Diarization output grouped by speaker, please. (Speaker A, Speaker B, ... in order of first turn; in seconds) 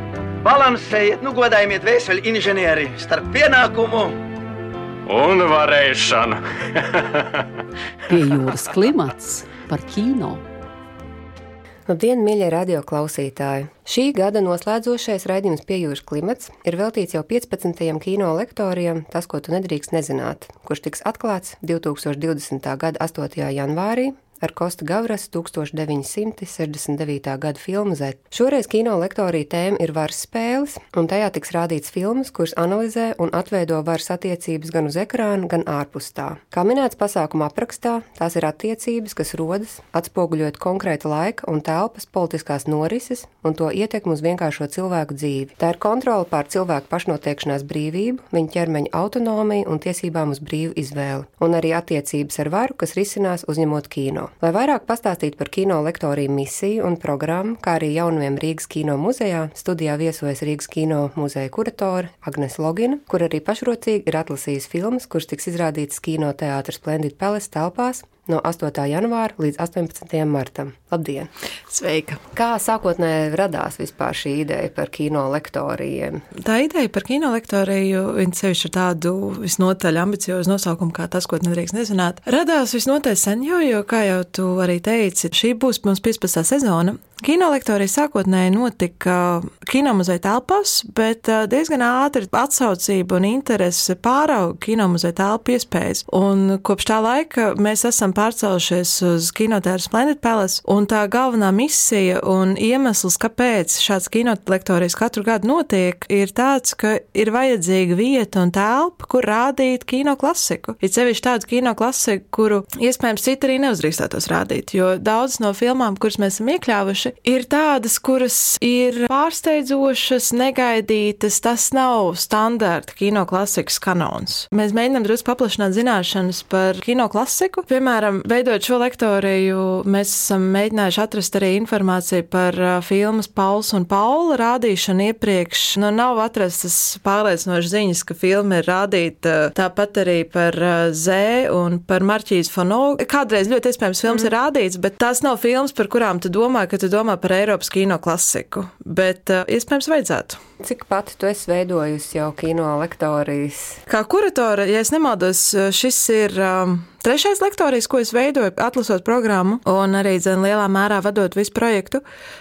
Speaker A: 0.4-4.2
Speaker B: 5.1-7.4
Speaker C: 8.1-10.4
Speaker D: 11.9-71.3, 72.3-76.2, 150.6-153.8
Speaker E: 71.7-72.2, 76.4-150.4, 153.9-162.0